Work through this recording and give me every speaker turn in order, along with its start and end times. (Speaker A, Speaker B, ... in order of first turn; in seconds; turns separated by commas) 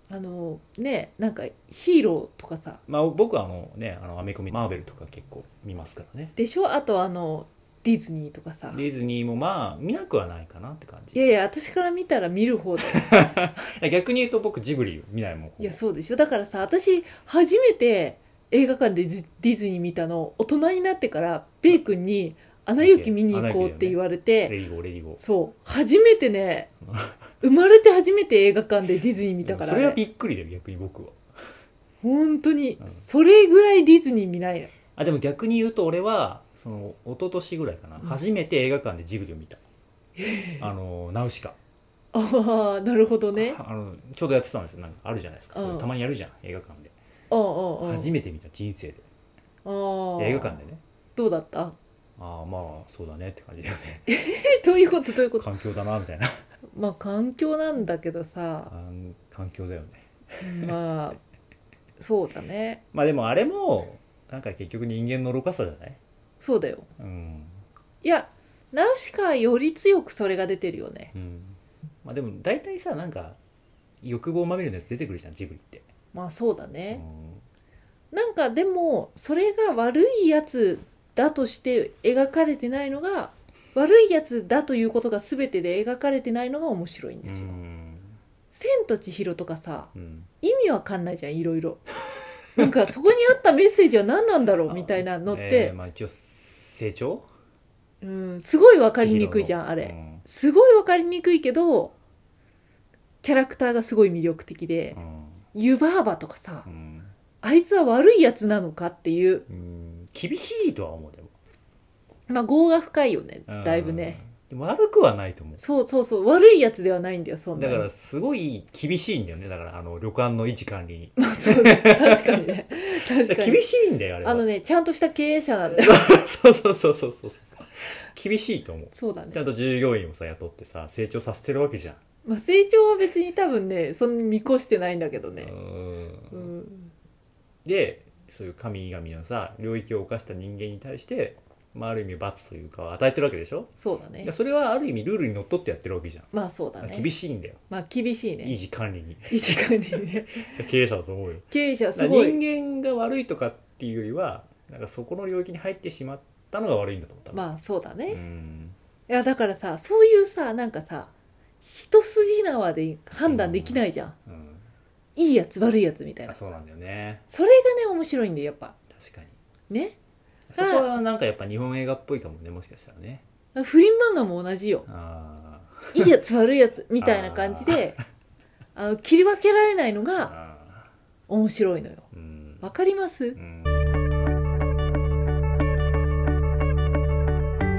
Speaker A: 0.1-2.8, Speaker B: 2.9-6.3, Speaker A: 6.4-8.8, Speaker B: 8.7-11.2, Speaker A: 11.1-13.3, Speaker B: 12.9-15.8, Speaker A: 15.6-24.6, Speaker B: 22.8-25.2, Speaker A: 25.2-26.7, Speaker B: 26.9-27.1, Speaker A: 27.4-30.0, Speaker B: 29.4-31.2, Speaker A: 32.0-34.7, Speaker B: 35.0-39.6, Speaker A: 40.2-40.7, Speaker B: 40.6-41.6, Speaker A: 42.1-43.6, Speaker B: 43.4-46.9, Speaker A: 45.5-45.9, Speaker A: 47.3-48.1, Speaker B: 47.8-49.0, Speaker A: 49.6-50.6, Speaker B: 50.2-50.8, Speaker A: 51.2-51.8, Speaker B: 52.2-54.1, Speaker A: 54.1-55.5, Speaker B: 55.4-56.4, Speaker A: 56.7-58.7, Speaker B: 58.7-60.8, Speaker A: 60.4-61.2, Speaker A: 62.0-62.8, Speaker B: 62.9-66.0, Speaker A: 66.4-66.9, Speaker B: 67.0-67.6, Speaker A: 68.0-71.1, Speaker B: 71.1-73.4, Speaker B: 74.0-75.8, Speaker A: 76.1-77.0, Speaker B: 76.9-77.4, Speaker A: 78.1-87.5, Speaker B: 87.2-88.2, Speaker A: 88.5-91.8, Speaker B: 90.0-90.3, Speaker A: 92.6-95.8, Speaker B: 94.7-97.3, Speaker A: 98.0-101.9, Speaker B: 99.0-100.2, Speaker A: 103.2-105.0, Speaker B: 104.9-105.4, Speaker A: 105.5-106.7, Speaker B: 106.7-107.1, Speaker A: 107.4-109.5, Speaker B: 109.5-111.3, Speaker A: 112.3-114.2, Speaker B: 113.5-115.6, Speaker A: 115.6-117.9, Speaker B: 117.5-124.5, Speaker A: 121.2-123.6, Speaker A: 124.2-126.1, Speaker B: 125.8-132.0, Speaker A: 128.9-129.4, Speaker A: 132.2-135.5, Speaker B: 135.4-136.5, Speaker A: 136.3-136.9, Speaker B: 137.7-143.7, Speaker A: 143.8-144.3, Speaker B: 144.2-146.3, Speaker A: 146.3-147.1, Speaker B: 146.8-147.6, Speaker A: 147.7-148.6, Speaker B: 148.4-149.5, Speaker A: 149.3-150.6, Speaker B: 150.4-157.4, Speaker A: 151.5-152.4, Speaker A: 157.3-158.2, Speaker B: 158.1-158.8, Speaker A: 159.1-161.1, Speaker A: 161.6-164.2, Speaker B: 163.2-164.7, Speaker A: 165.2-166.4, Speaker B: 166.3-167.2, Speaker A: 167.3-168.8, Speaker B: 168.9-169.4, Speaker A: 169.7-170.0, Speaker B: 170.5-173.2, Speaker A: 170.6-171.0, Speaker A: 173.6-174.9, Speaker B: 174.9-176.1, Speaker A: 175.9-178.0, Speaker B: 177.0-178.0, Speaker A: 178.8-180.3, Speaker B: 180.2-180.9, Speaker A: 181.3-182.1, Speaker B: 182.1-182.7, Speaker A: 182.6-183.4, Speaker B: 183.4-183.9